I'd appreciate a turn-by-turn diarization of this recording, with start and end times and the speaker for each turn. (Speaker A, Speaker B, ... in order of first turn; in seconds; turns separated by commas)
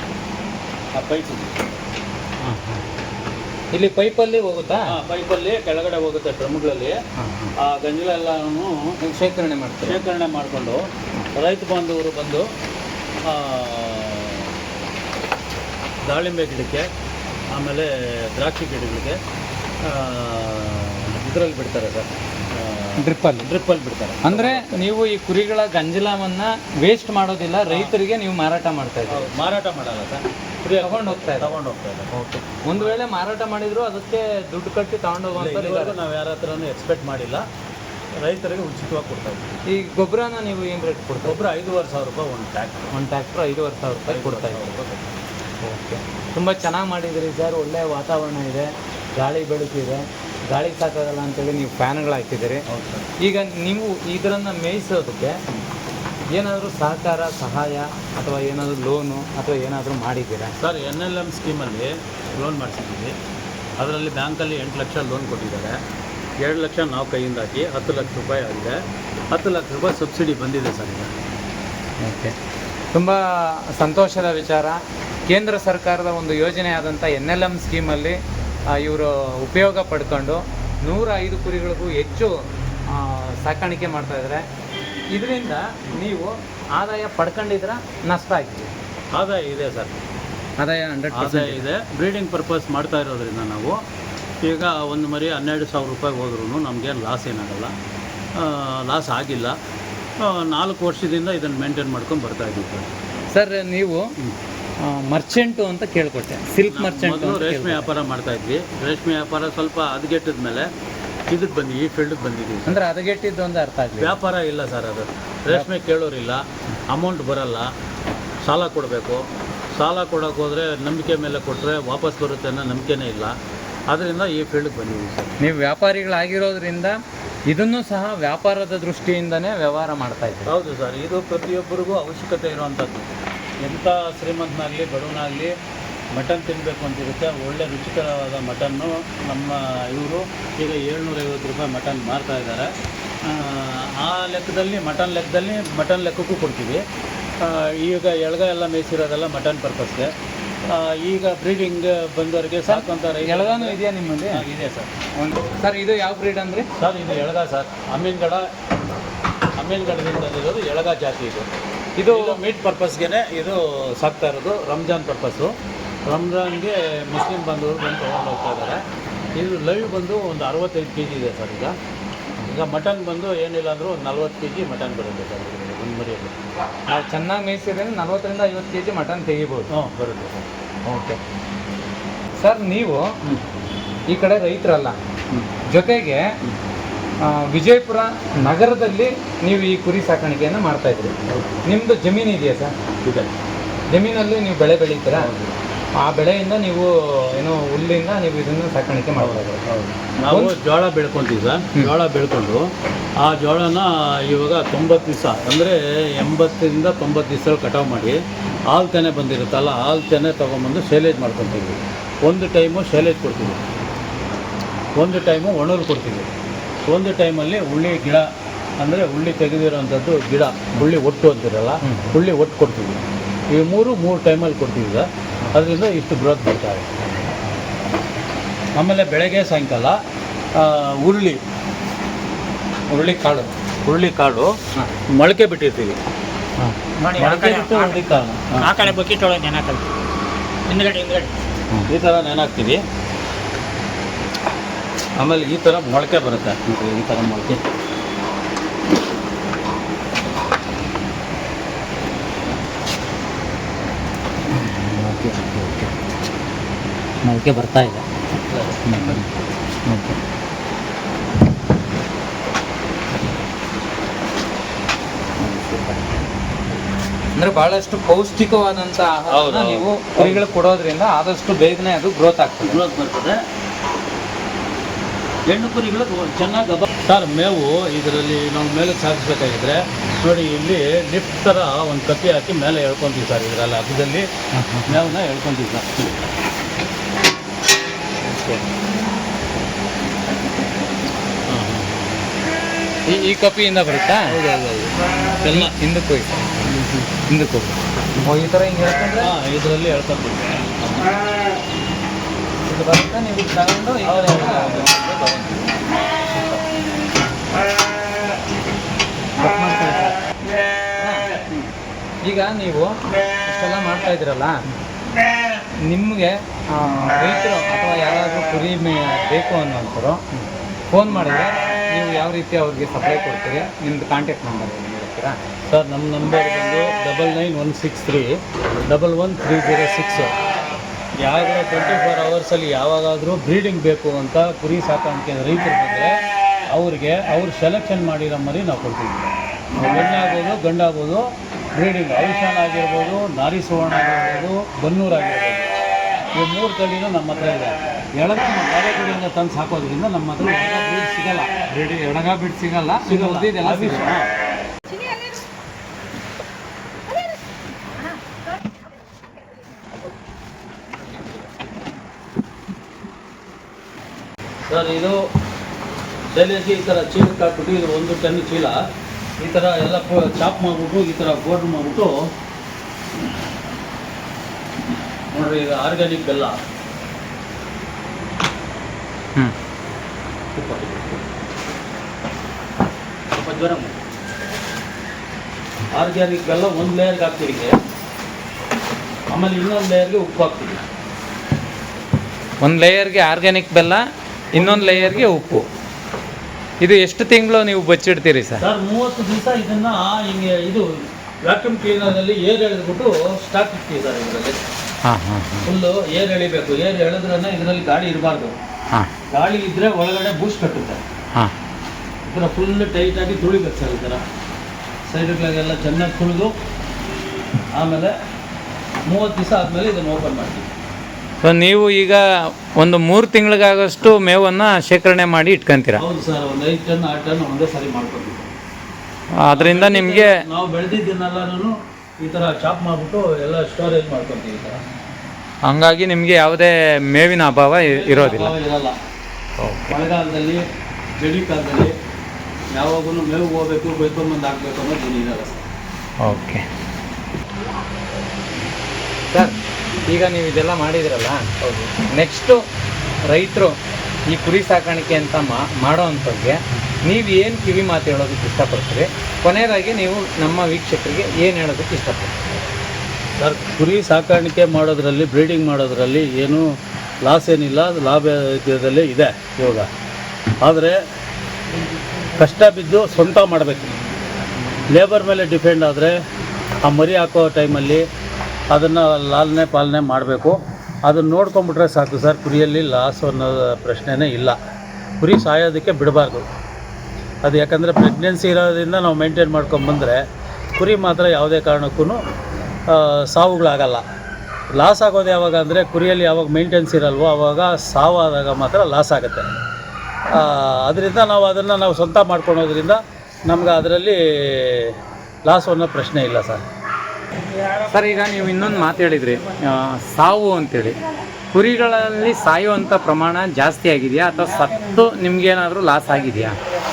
Speaker A: 0.9-1.6, Speaker B: 2.4-2.8, Speaker B: 3.7-5.0, Speaker A: 4.8-7.0, Speaker B: 7.2-7.5, Speaker A: 7.6-9.0, Speaker B: 9.0-10.0, Speaker A: 9.8-12.4, Speaker A: 13.2-14.5, Speaker A: 16.0-16.9, Speaker A: 17.5-19.2, Speaker A: 19.8-24.8, Speaker B: 23.0-23.5, Speaker B: 24.2-29.3, Speaker A: 27.7-27.9, Speaker A: 29.1-32.1, Speaker B: 30.8-31.6, Speaker B: 32.1-36.0, Speaker A: 35.3-37.4, Speaker A: 38.2-39.6, Speaker B: 39.7-41.5, Speaker A: 41.2-42.9, Speaker B: 42.9-44.8, Speaker A: 44.0-45.1, Speaker B: 45.6-52.6, Speaker A: 52.7-53.1, Speaker B: 53.2-55.4, Speaker B: 56.3-60.5, Speaker A: 60.6-63.1, Speaker A: 63.8-65.8, Speaker A: 66.4-71.1, Speaker B: 72.0-72.3, Speaker B: 72.9-78.2, Speaker B: 78.7-84.4, Speaker B: 85.1-88.7, Speaker A: 89.1-90.0, Speaker B: 90.6-91.6, Speaker A: 91.1-93.8, Speaker A: 94.4-97.7, Speaker A: 98.3-99.6, Speaker A: 100.2-102.9, Speaker B: 103.3-104.1, Speaker B: 104.8-107.9, Speaker A: 106.6-110.7, Speaker A: 111.3-112.8, Speaker B: 112.7-114.2, Speaker A: 114.0-117.7, Speaker A: 118.4-119.2, Speaker A: 119.7-123.3, Speaker A: 123.9-125.4, Speaker B: 125.4-127.0, Speaker B: 127.5-130.5, Speaker A: 130.4-133.1, Speaker A: 133.6-135.5, Speaker A: 136.1-142.7, Speaker A: 143.2-146.8, Speaker A: 147.4-150.1, Speaker A: 150.7-154.9, Speaker B: 152.7-154.4, Speaker B: 155.1-156.7, Speaker A: 156.8-158.5, Speaker A: 159.6-161.5, Speaker B: 162.0-162.4, Speaker A: 162.1-165.5, Speaker A: 166.1-168.8, Speaker A: 169.3-171.8, Speaker A: 172.4-176.3, Speaker B: 176.9-179.7, Speaker A: 179.7-180.4, Speaker B: 180.9-181.2, Speaker B: 182.4-183.1, Speaker B: 184.1-185.0, Speaker B: 185.7-186.2, Speaker B: 187.2-192.7, Speaker A: 191.3-191.7, Speaker A: 193.0-193.3, Speaker B: 193.9-195.3, Speaker A: 195.2-195.5, Speaker B: 195.9-199.6, Speaker A: 199.2-208.2, Speaker B: 200.3-200.5, Speaker A: 208.7-213.6, Speaker A: 215.0-216.3, Speaker A: 216.9-218.3, Speaker A: 218.8-227.0, Speaker A: 228.7-230.0, Speaker A: 230.5-231.4, Speaker B: 232.9-233.5, Speaker A: 233.8-234.6, Speaker A: 235.1-236.0, Speaker B: 236.6-237.7, Speaker A: 237.1-238.9, Speaker C: 237.2-237.9, Speaker C: 238.6-239.8, Speaker C: 240.7-241.2, Speaker A: 241.9-242.8, Speaker A: 245.2-247.6, Speaker B: 254.5-255.9, Speaker B: 257.2-258.1, Speaker A: 258.5-259.2, Speaker B: 258.9-259.3, Speaker B: 259.9-260.2, Speaker B: 265.4-266.0, Speaker B: 267.4-272.8, Speaker A: 269.3-270.5, Speaker A: 272.6-273.4, Speaker A: 275.5-284.3, Speaker B: 284.5-285.1, Speaker A: 284.9-286.2, Speaker B: 288.2-288.6, Speaker B: 291.5-291.8, Speaker B: 293.1-294.4, Speaker A: 294.2-295.7, Speaker B: 295.4-299.3, Speaker A: 299.2-301.1, Speaker B: 302.6-304.9, Speaker A: 304.0-305.8, Speaker B: 309.4-310.2, Speaker B: 310.9-311.3, Speaker B: 312.2-314.6, Speaker B: 315.9-325.4, Speaker A: 325.7-330.3, Speaker A: 331.2-336.1, Speaker A: 336.7-345.7, Speaker A: 346.3-351.5, Speaker B: 351.7-354.1, Speaker A: 353.0-354.3, Speaker A: 364.7-365.2, Speaker A: 366.3-368.8, Speaker A: 369.4-372.1, Speaker A: 375.3-376.6, Speaker A: 380.5-381.2, Speaker A: 383.4-384.0, Speaker A: 385.9-387.8, Speaker A: 389.3-390.8, Speaker B: 392.6-395.6, Speaker A: 394.5-395.6, Speaker B: 396.8-398.6, Speaker A: 398.6-404.6, Speaker B: 405.0-405.7, Speaker A: 405.6-408.6, Speaker A: 409.3-411.0, Speaker A: 412.2-414.2, Speaker A: 415.1-416.5, Speaker A: 417.7-418.1, Speaker A: 419.1-420.7, Speaker B: 421.4-426.0, Speaker A: 426.0-428.5, Speaker B: 429.4-430.4, Speaker A: 429.5-434.8, Speaker B: 435.6-438.5, Speaker A: 437.9-439.0, Speaker B: 439.6-439.9, Speaker A: 439.9-440.6, Speaker A: 441.2-441.9, Speaker A: 442.7-445.7, Speaker B: 446.2-446.6, Speaker B: 449.3-452.6, Speaker B: 453.3-453.8, Speaker B: 454.3-462.4, Speaker A: 463.4-469.9, Speaker A: 470.6-471.0, Speaker A: 472.3-473.9, Speaker A: 474.9-476.2, Speaker A: 476.8-478.0, Speaker A: 478.7-484.6, Speaker A: 485.2-486.4, Speaker A: 487.4-490.2, Speaker A: 490.8-492.2, Speaker A: 492.9-494.0, Speaker A: 494.7-499.5, Speaker A: 500.3-506.6, Speaker B: 507.8-511.0, Speaker B: 511.5-516.6